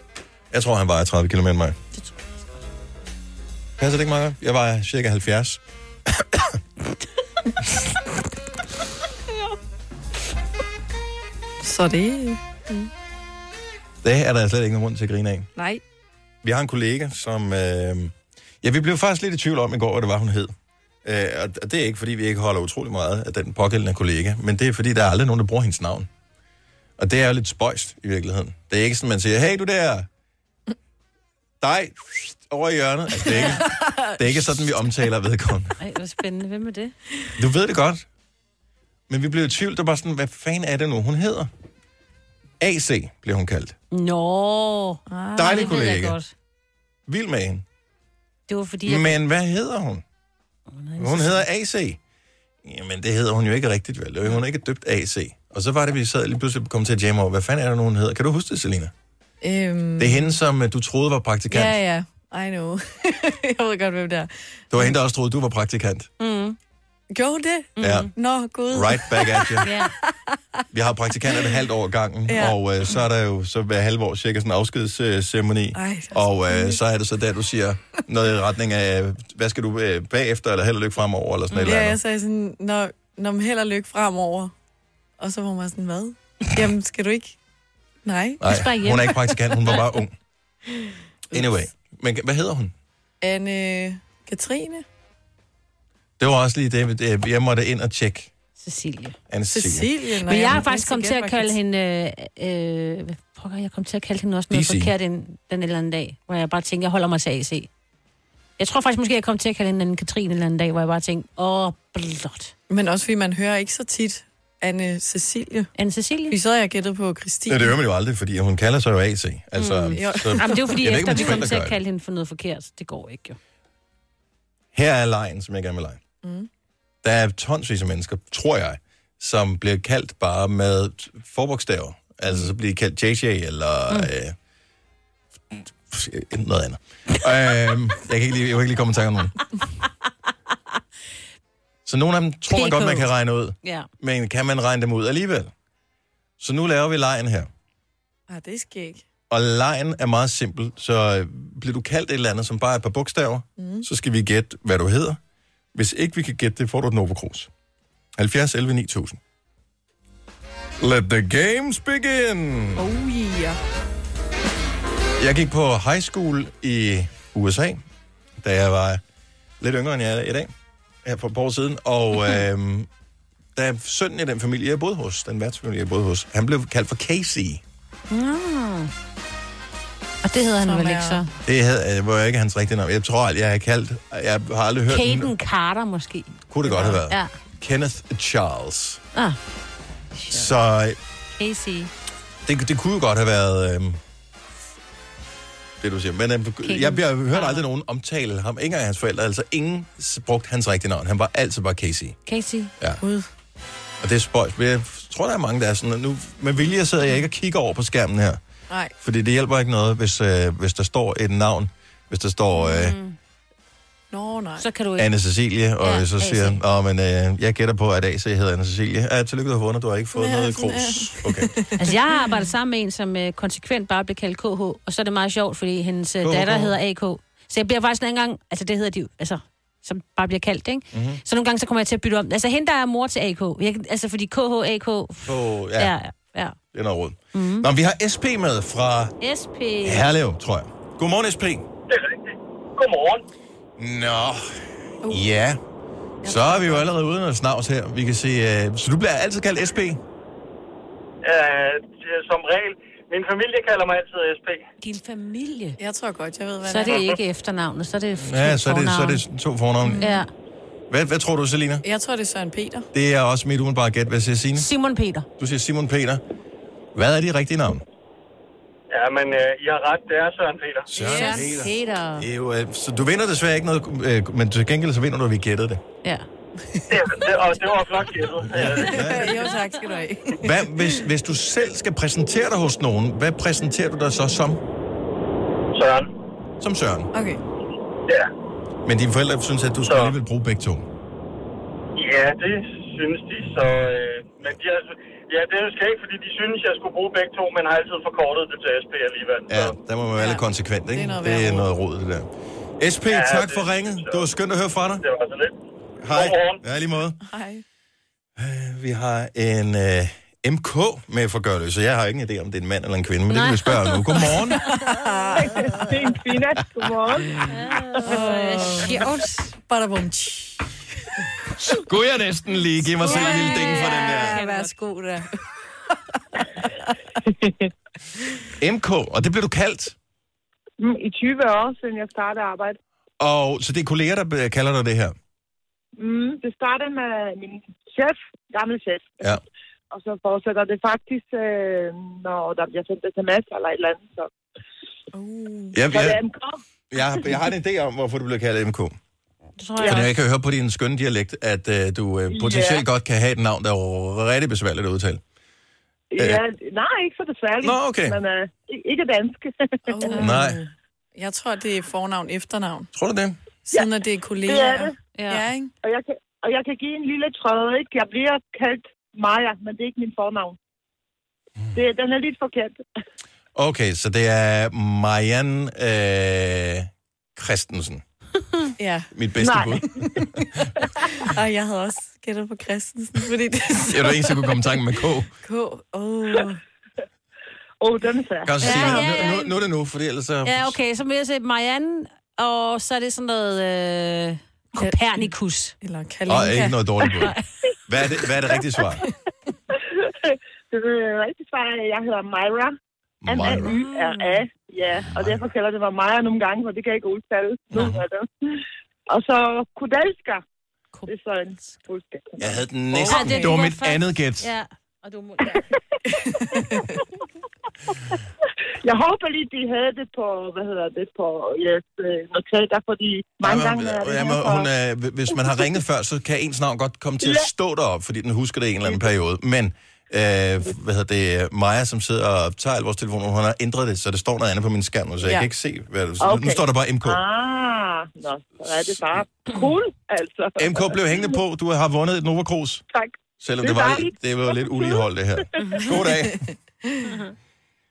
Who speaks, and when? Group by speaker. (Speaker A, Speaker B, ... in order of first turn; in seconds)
Speaker A: 0.5-1.8, 3.8-5.6, 14.0-15.5, 16.4-20.5, 21.1-26.1, 27.0-30.1, 31.6-35.8, 37.4-38.1, 39.1-41.5, 42.6-43.8, 45.4-46.2, 47.1-47.6, 48.9-50.0, 51.0-52.0, 52.6-58.9, 60.0-61.8, 64.7-66.1, 67.8-68.1, 68.7-69.7, 70.7-82.0, 88.4-90.2, 91.3-92.7, 96.2-98.3, 99.3-99.9, 104.5-104.9, 117.5-121.8, 124.7-126.0, 127.0-134.4, 135.5-139.4, 141.9-145.5, 146.4-147.5, 149.3-155.2, 155.8-157.5, 158.2-159.2, 160.8-162.9, 165.2-167.8, 168.4-169.0, 169.6-170.5, 171.1-172.9, 173.6-177.6, 181.5-185.3, 186.5-189.0, 190.3-191.0, 192.4-194.0, 195.8-202.2, 204.0-208.4, 209.0-213.0, 215.0-221.6, 226.2-226.7, 230.9-231.2, 235.3-235.9, 236.7-239.2, 239.8-241.7, 243.8-244.6, 245.1-245.6, 246.2-250.0, 258.2-260.1, 260.9-261.8, 262.9-264.7, 265.4-266.2, 266.9-267.8, 270.9-275.8, 278.5-279.5, 280.4-284.6, 286.6-287.1, 288.9-290.9, 299.5-302.3, 302.8-305.0, 306.0-307.2, 308.4-314.6, 321.6-324.4, 328.6-329.9, 333.2-335.2, 345.7-346.2, 346.9-348.9, 349.8-355.2, 357.6-358.2, 360.2-360.6, 362.9-363.4, 373.6-378.0, 379.1-380.3, 383.9-385.3, 388.4-390.8, 396.3-397.3, 397.9-399.1, 403.2-403.8, 405.1-405.4, 407.7-408.0, 412.4-414.5, 423.4-437.2, 440.6-442.8, 443.4-446.5
Speaker B: 11.6-12.9, 15.6-15.8, 33.2-34.7, 45.1-45.8, 59.4-60.4, 61.5-65.0, 67.1-70.6, 71.2-71.6, 72.3-72.6, 75.8-76.8, 81.6-84.5, 85.2-87.4, 88.0-88.4, 90.7-91.6, 93.2-94.8, 99.5-101.6, 112.7-115.7, 116.3-117.8, 119.9-121.4, 126.2-126.5, 148.3-149.0, 153.6-153.9, 162.8-163.6, 180.6-181.2, 203.0-203.3, 214.1-214.7, 220.1-222.3, 246.2-246.8, 255.8-257.1, 259.8-260.2, 261.8-262.9, 271.1-271.4, 278.9-280.9, 287.1-287.4, 300.2-301.7, 307.2-307.6, 314.6-315.9, 318.0-320.7, 323.0-325.3, 326.1-326.9, 345.1-345.8, 359.9-362.9, 363.7-365.7, 378.8-379.1, 381.2-384.5, 385.4-386.6, 394.8-395.3, 395.8-396.8, 403.5-404.4, 413.0-413.5, 416.2-416.9, 435.2-435.5, 445.7-447.2
Speaker C: 35.8-36.9, 43.9-46.3, 48.5-49.2, 50.8-51.4, 66.2-66.6, 67.8-68.1, 69.6-69.9, 88.5-89.8, 98.6-99.2, 100.3-107.7, 108.6-112.5, 115.8-116.4, 119.6-123.4, 142.5-143.1, 143.6-143.9, 178.1-178.9, 180.2-181.3, 184.9-187.3, 190.1-190.5, 191.4-191.9, 196.6-197.6, 202.3-202.7, 212.6-213.2, 214.6-215.1, 215.8-216.6, 221.8-236.6, 237.3-237.7, 239.2-240.1, 254.8-255.8, 256.6-259.2, 260.0-260.3, 264.6-265.3, 270.9-272.3, 313.3-315.8, 317.5-319.5, 323.0-324.7, 349.6-350.1, 365.1-365.4, 388.6-389.5, 390.4-395.8, 413.1-415.6, 447.1-447.3
Speaker D: 241.9-243.2, 251.2-254.7, 268.9-270.9, 276.9-279.0, 285.7-286.1, 289.9-290.1, 292.0-299.8, 303.1-304.3, 305.0-305.6, 306.1-306.6
Speaker E: 315.4-317.4, 330.8-332.8, 336.0-339.4, 339.9-344.3, 345.9-346.6, 352.3-352.8, 356.1-360.1, 364.4-364.9, 365.8-370.6, 371.7-372.8, 379.4-380.1, 387.8-388.8, 399.9-402.8, 403.3-410.4, 411.1-412.6, 416.6-416.8, 418.8-424.7, 427.2-427.5, 436.2-441.2, 443.6-444.9